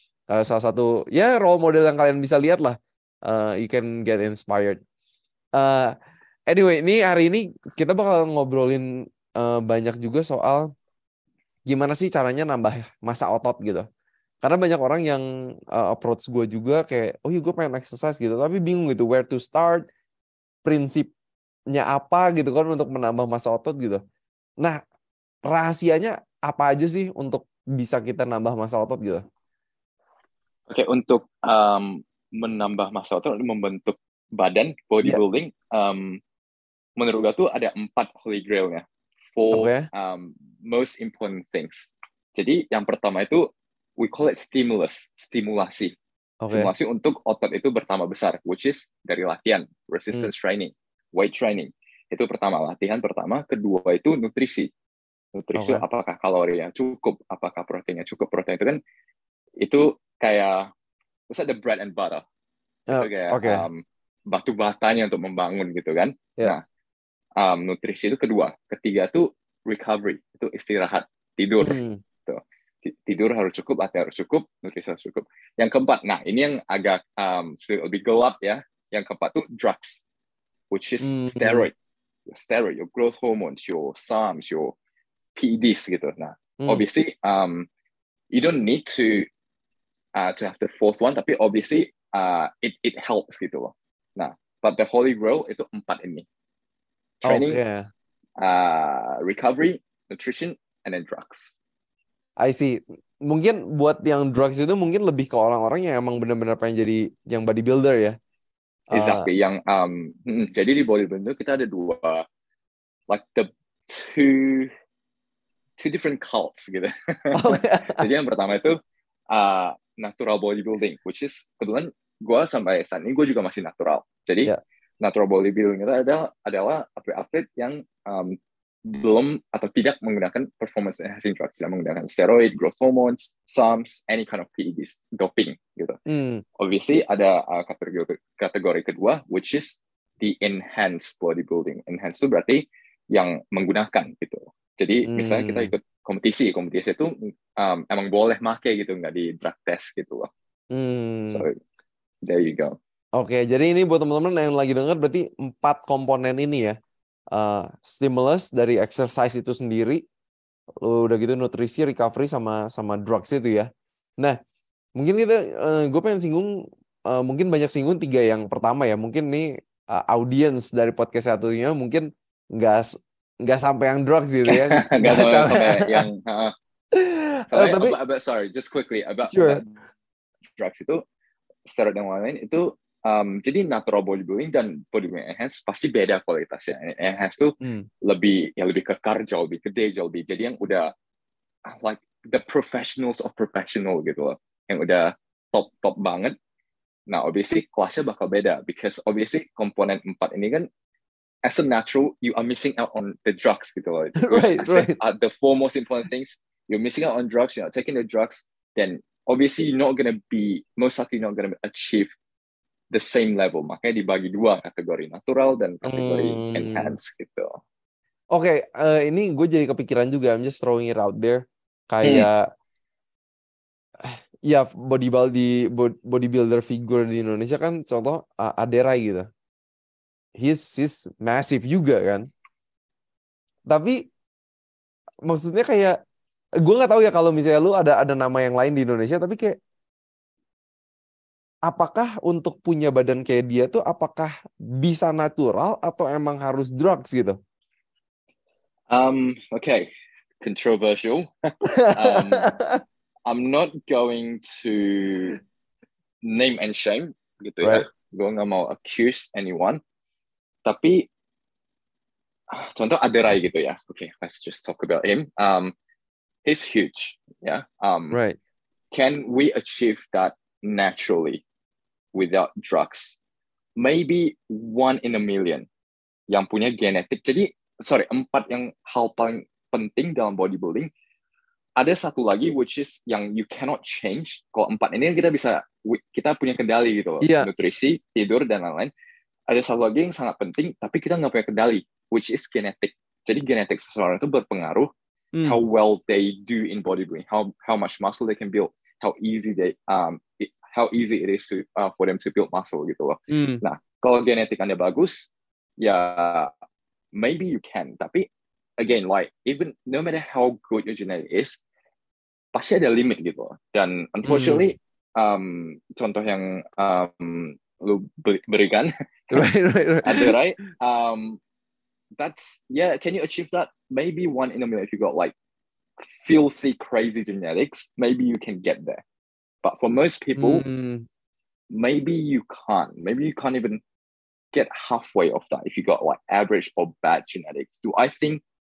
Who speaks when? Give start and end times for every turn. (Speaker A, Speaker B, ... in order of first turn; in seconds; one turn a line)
Speaker A: 0.3-4.8
Speaker A: 5.6-5.9
Speaker A: 6.5-10.7
Speaker A: 11.7-13.9
Speaker A: 14.4-19.9
Speaker A: 20.6-21.1
Speaker A: 21.7-24.0
Speaker A: 25.5-29.2
Speaker B: 30.7-36.2
Speaker B: 37.0-38.8
Speaker B: 39.4-45.9
Speaker A: 39.5-39.9
Speaker A: 46.4-46.7
Speaker B: 46.5-54.7
Speaker B: 55.4-58.8
Speaker A: 55.6-55.8
Speaker B: 59.6-60.7
Speaker B: 61.3-62.2
Speaker A: 62.9-63.7
Speaker B: 62.9-66.6
Speaker B: 67.4-80.0
Speaker A: 71.6-72.0
Speaker B: 80.7-81.7
Speaker A: 81.0-81.7
Speaker B: 82.3-84.8
Speaker B: 85.3-87.7
Speaker B: 88.3-89.3
Speaker B: 90.2-96.3
Speaker B: 97.2-97.6
Speaker A: 97.2-97.8
Speaker B: 98.4-101.5
Speaker A: 102.4-108.2
Speaker A: 108.9-109.3
Speaker B: 108.9-112.2
Speaker B: 113.1-114.7
Speaker B: 115.8-118.8
Speaker A: 117.3-118.1
Speaker B: 119.3-136.0
Speaker A: 136.1-136.4
Speaker B: 136.6-150.3
Speaker A: 145.1-145.7
Speaker A: 150.7-151.5
Speaker B: 151.3-151.6
Speaker B: 152.2-152.8
Speaker A: 153.2-156.8
Speaker A: 157.3-160.0
Speaker A: 160.8-164.4
Speaker A: 165.0-166.5
Speaker A: 167.1-176.1
Speaker B: 174.5-176.5
Speaker A: 176.9-178.0
Speaker B: 177.5-179.7
Speaker A: 179.3-179.6
Speaker B: 180.6-181.0
Speaker B: 181.7-190.9
Speaker A: 187.6-187.9
Speaker B: 191.7-196.4
Speaker B: 197.1-200.7
Speaker B: 201.4-212.1
Speaker A: 204.2-205.0
Speaker B: 212.9-217.6
Speaker A: 215.8-216.9
Speaker A: 218.3-222.5
Speaker B: 222.0-222.3
Speaker A: 224.0-229.3
Speaker A: 230.4-232.3
Speaker A: 233.7-234.1
Speaker A: 235.3-236.0
Speaker A: 236.6-239.6
Speaker A: 241.7-247.4
Speaker B: 248.9-249.9
Speaker B: 250.4-252.6
Speaker A: 251.7-252.8
Speaker B: 253.3-255.4
Speaker B: 256.2-259.8
Speaker A: 257.6-257.9
Speaker B: 260.6-261.1
Speaker B: 262.5-265.7
Speaker B: 266.4-268.2
Speaker A: 268.1-268.4
Speaker B: 268.9-271.4
Speaker B: 272.1-273.2
Speaker B: 273.8-275.7
Speaker B: 276.3-280.9
Speaker B: 281.8-288.9
Speaker A: 287.2-287.5
Speaker B: 289.5-294.9
Speaker B: 295.4-306.5
Speaker A: 303.3-303.6
Speaker B: 307.1-308.3
Speaker B: 308.8-311.6
Speaker B: 312.5-319.5
Speaker A: 314.3-314.7
Speaker A: 319.3-320.4
Speaker B: 320.0-321.4
Speaker B: 322.2-325.3
Speaker B: 326.2-329.0
Speaker B: 329.6-330.6
Speaker A: 330.4-331.1
Speaker B: 331.7-333.8
Speaker B: 334.5-338.4